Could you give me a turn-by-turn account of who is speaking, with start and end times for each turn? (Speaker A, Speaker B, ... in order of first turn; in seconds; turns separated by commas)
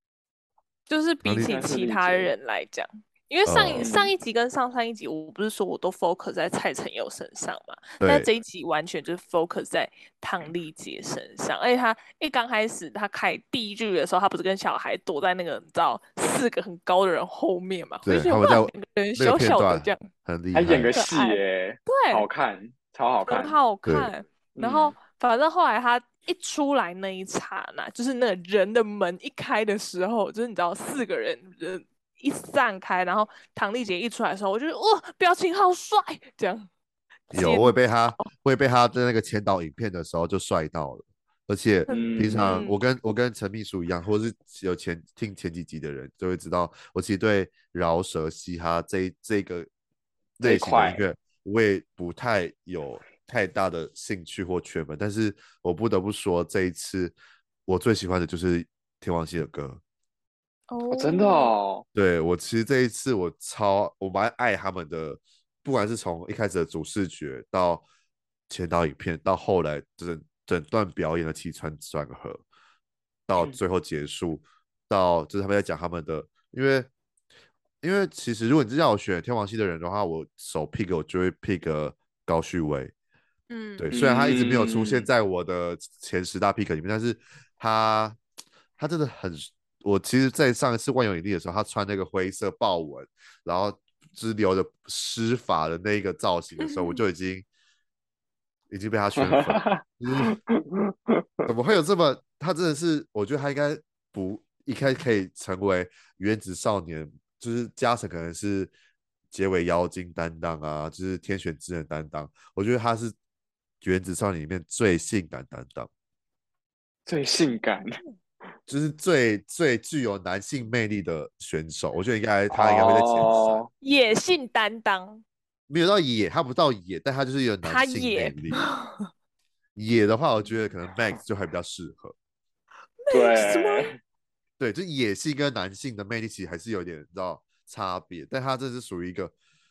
Speaker A: 0.9-20.1, Speaker B: 1.2-1.6, Speaker C: 1.4-2.3, Speaker B: 3.4-3.9, Speaker C: 3.8-4.1, Speaker B: 8.0-8.3, Speaker B: 18.1-20.9, Speaker C: 20.5-23.6, Speaker A: 20.9-22.2, Speaker A: 23.3-36.7, Speaker B: 23.9-24.1, Speaker C: 24.6-24.9, Speaker A: 37.3-38.2, Speaker B: 37.3-49.7, Speaker C: 41.9-42.6, Speaker A: 41.9-42.8, Speaker B: 50.4-57.1, Speaker C: 50.4-51.0, Speaker B: 57.7-59.8, Speaker A: 60.7-61.5, Speaker C: 60.9-61.9, Speaker B: 61.9-67.8, Speaker B: 68.5-72.4, Speaker B: 73.3-76.9, Speaker B: 77.8-82.9, Speaker A: 83.5-83.9, Speaker B: 83.8-88.2, Speaker C: 83.9-85.1, Speaker B: 88.8-97.5, Speaker B: 98.7-100.4, Speaker C: 99.2-101.5, Speaker B: 101.5-108.7, Speaker B: 109.3-113.2, Speaker B: 113.8-115.9, Speaker C: 117.1-117.9, Speaker B: 118.7-123.6, Speaker C: 122.5-123.7, Speaker A: 123.8-125.2, Speaker B: 125.7-128.7, Speaker A: 127.6-129.1, Speaker B: 129.8-132.1, Speaker A: 133.0-133.9, Speaker C: 133.1-133.9, Speaker B: 134.6-139.3